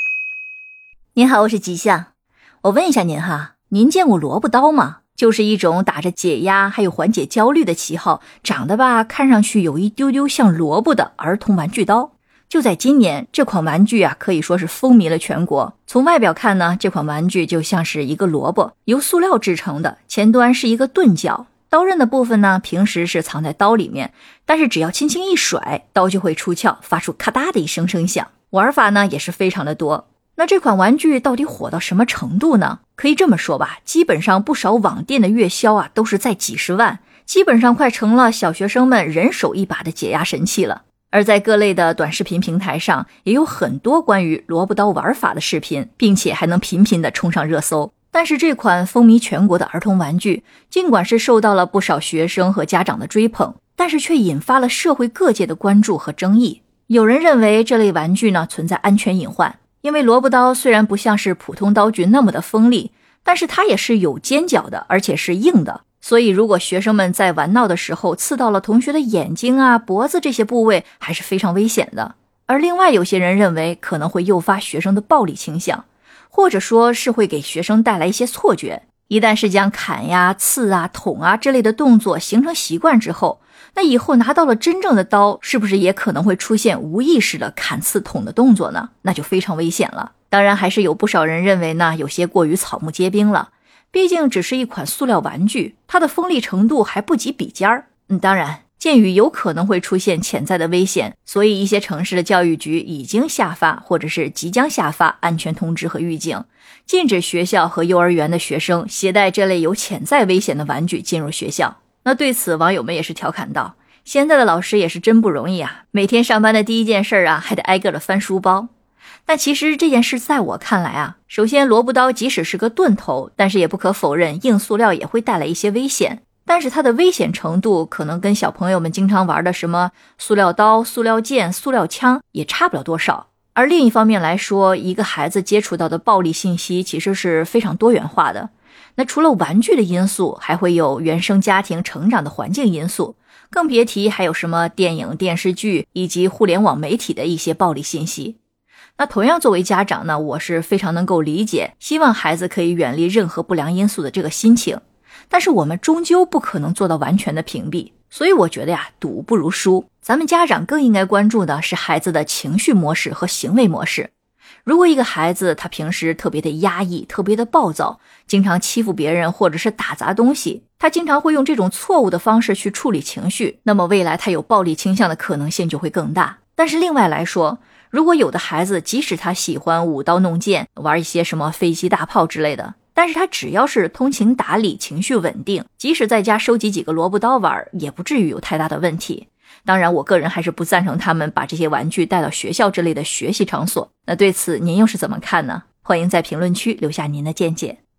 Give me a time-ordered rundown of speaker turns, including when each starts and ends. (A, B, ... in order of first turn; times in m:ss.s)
0:01.2-0:02.1 A
0:02.6-1:58.7 A
1:59.2-2:28.4 A
2:29.0-2:44.1 A
2:44.6-3:17.8 A